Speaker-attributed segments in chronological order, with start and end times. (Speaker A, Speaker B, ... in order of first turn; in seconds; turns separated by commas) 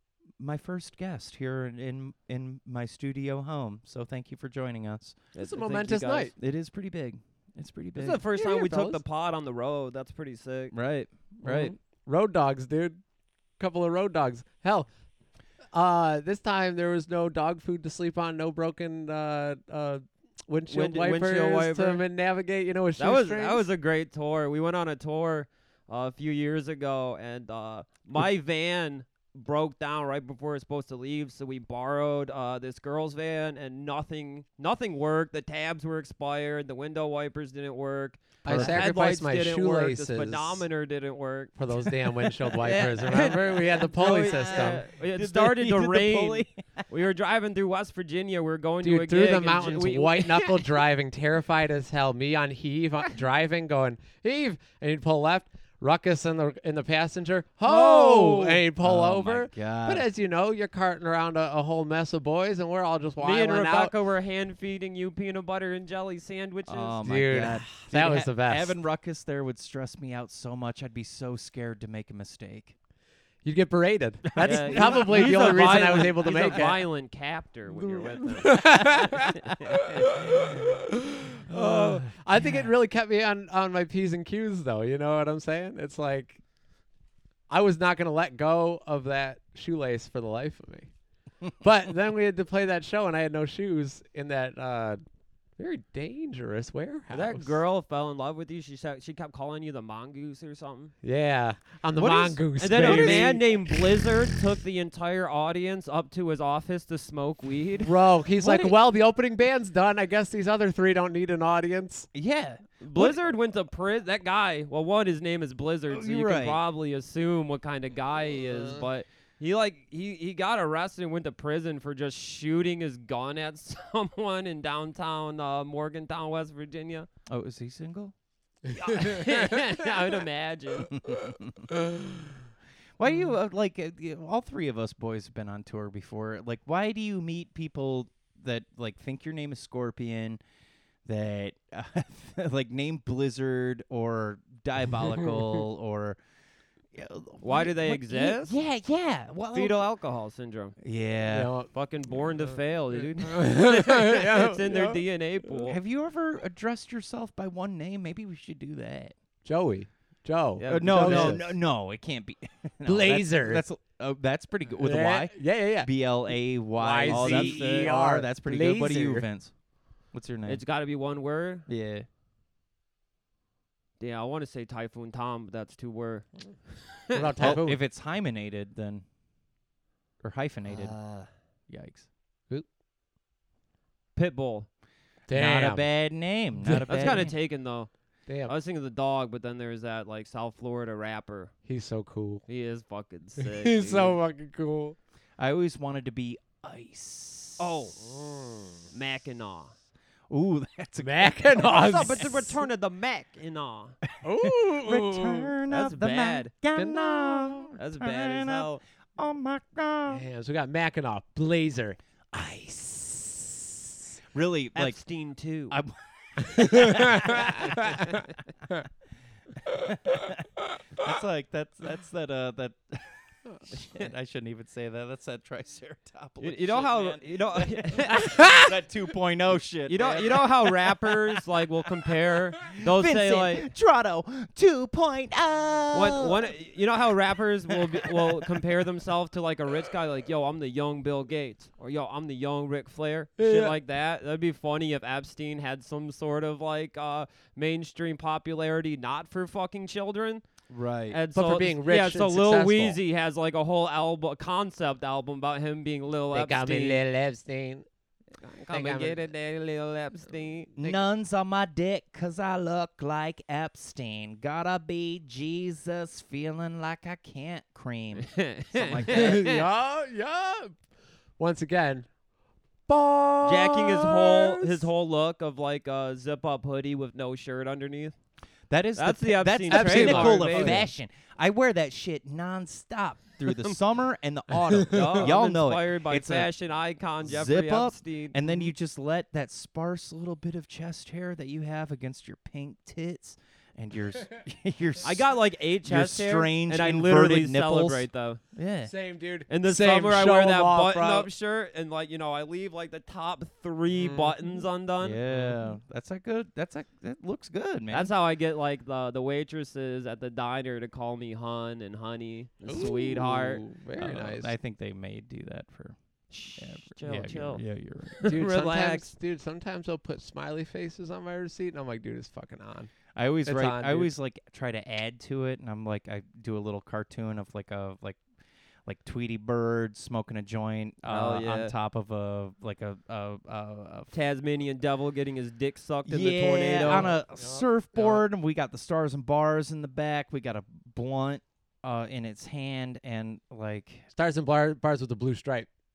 Speaker A: 0.4-5.2, Speaker B: 5.3-6.3, Speaker C: 5.4-6.3, Speaker A: 6.4-8.2, Speaker B: 8.0-10.7, Speaker C: 8.4-9.0, Speaker A: 10.7-11.7, Speaker C: 11.4-13.0, Speaker C: 13.6-14.9, Speaker C: 15.7-23.6, Speaker B: 20.7-22.0, Speaker B: 23.0-41.9, Speaker C: 38.4-40.6, Speaker A: 38.5-38.9, Speaker C: 41.6-44.8, Speaker B: 42.6-50.7, Speaker A: 44.0-46.9, Speaker C: 48.8-63.9, Speaker B: 57.7-58.6, Speaker A: 58.8-60.1, Speaker B: 63.2-67.0, Speaker A: 66.7-72.8, Speaker C: 67.0-68.8, Speaker C: 73.4-76.9, Speaker A: 74.3-76.1, Speaker B: 74.4-80.1, Speaker C: 77.8-79.4, Speaker C: 80.0-86.4, Speaker A: 81.5-82.0, Speaker C: 87.5-90.9, Speaker C: 91.5-95.0, Speaker C: 95.6-97.6, Speaker B: 97.1-100.9, Speaker C: 101.0-103.6, Speaker A: 102.0-103.4, Speaker B: 102.6-107.9, Speaker C: 107.9-112.1, Speaker A: 108.4-108.8, Speaker A: 112.1-113.3, Speaker B: 112.8-127.1, Speaker A: 115.9-116.6, Speaker A: 127.3-128.1, Speaker B: 128.7-130.9, Speaker A: 130.9-131.7, Speaker C: 131.8-132.1, Speaker A: 133.0-140.4, Speaker A: 141.1-146.2, Speaker A: 146.9-149.8, Speaker B: 147.4-148.6, Speaker B: 149.5-150.8, Speaker A: 150.8-151.5, Speaker C: 151.3-151.7, Speaker B: 151.7-155.8, Speaker C: 153.2-155.0, Speaker A: 155.7-159.1, Speaker C: 159.4-161.5, Speaker B: 160.6-161.4, Speaker A: 160.7-170.6, Speaker C: 162.8-163.6, Speaker C: 164.8-165.9, Speaker C: 166.8-169.3, Speaker B: 167.1-167.9, Speaker B: 170.5-171.7, Speaker A: 171.7-172.1, Speaker B: 174.0-177.6, Speaker C: 177.1-177.8, Speaker A: 177.4-179.1, Speaker A: 180.2-181.0, Speaker B: 180.7-181.3, Speaker A: 181.7-182.1, Speaker B: 184.2-184.7, Speaker C: 185.3-185.9, Speaker A: 185.3-187.3, Speaker B: 186.9-187.9, Speaker C: 188.3-188.5, Speaker B: 188.4-191.5, Speaker C: 191.7-192.4, Speaker B: 192.5-194.2, Speaker C: 193.4-195.0, Speaker A: 195.4-197.7, Speaker B: 197.6-198.1, Speaker C: 198.0-198.9, Speaker B: 198.9-199.7, Speaker A: 200.3-202.4, Speaker C: 201.0-202.4, Speaker B: 201.6-204.0, Speaker C: 204.2-205.5, Speaker A: 204.3-210.2, Speaker B: 205.7-206.5, Speaker C: 206.8-207.7, Speaker B: 207.8-208.8, Speaker C: 210.1-214.0, Speaker A: 214.3-215.0, Speaker B: 214.8-215.8, Speaker A: 215.7-218.2, Speaker C: 216.7-218.0, Speaker A: 219.7-231.2, Speaker B: 226.4-228.3, Speaker C: 228.2-228.7, Speaker B: 229.9-233.7, Speaker A: 232.8-236.4, Speaker B: 235.9-250.4, Speaker C: 243.4-243.8, Speaker A: 250.7-251.2, Speaker B: 251.1-257.0, Speaker C: 251.3-253.0, Speaker C: 256.3-257.9, Speaker B: 258.4-261.0, Speaker C: 258.7-259.2, Speaker A: 260.8-269.4, Speaker B: 268.2-269.6, Speaker C: 269.1-270.8, Speaker C: 271.4-272.1, Speaker C: 272.9-274.9, Speaker B: 273.4-278.1, Speaker A: 278.7-286.5, Speaker B: 279.0-280.9, Speaker C: 279.7-280.9, Speaker C: 284.8-285.3, Speaker B: 284.9-288.4, Speaker A: 287.2-295.3, Speaker B: 295.0-298.4, Speaker A: 295.8-298.9, Speaker C: 298.9-301.3, Speaker B: 299.5-305.5, Speaker C: 304.0-304.3, Speaker A: 305.0-308.1, Speaker B: 307.9-313.6, Speaker C: 312.6-314.5, Speaker A: 314.0-318.4, Speaker B: 316.3-319.1, Speaker C: 318.2-324.1, Speaker A: 323.1-328.2, Speaker A: 328.9-334.1, Speaker B: 331.1-331.7, Speaker B: 334.1-337.1, Speaker A: 336.1-344.1, Speaker C: 336.8-338.2, Speaker C: 344.1-345.7